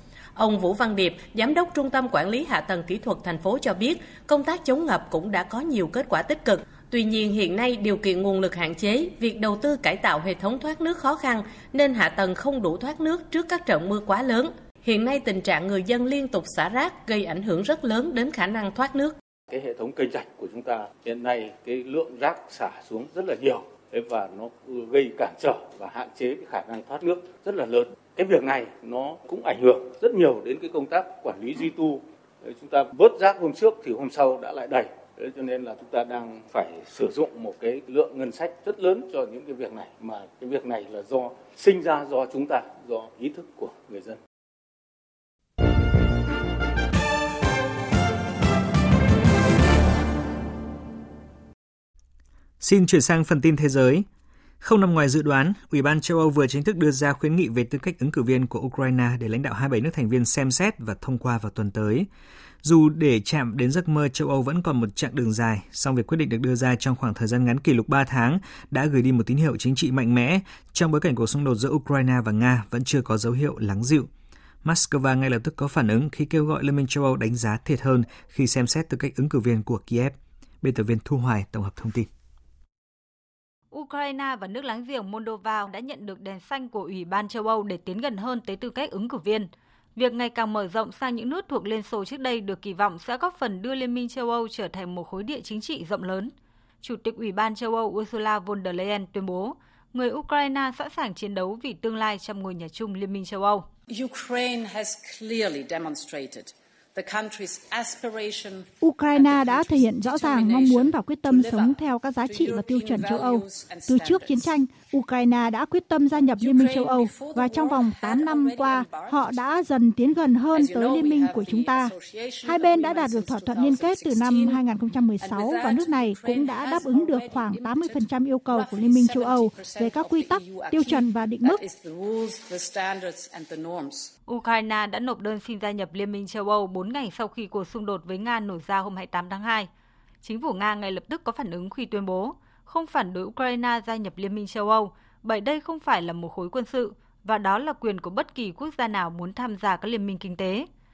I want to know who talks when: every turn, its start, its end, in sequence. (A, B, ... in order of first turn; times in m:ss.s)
0:00.4-0:19.2 A
0:19.5-0:44.2 B
0:52.6-0:54.0 C
0:54.6-1:02.1 C
1:02.6-1:14.1 C
1:14.6-1:22.1 C
1:23.7-1:43.7 D
1:43.9-1:54.5 E
1:48.8-2:01.9 F
1:56.4-1:59.5 E
2:00.5-2:04.7 E
2:02.4-2:11.6 F
2:05.2-2:14.1 E
2:14.3-2:19.7 D
2:20.2-2:30.7 D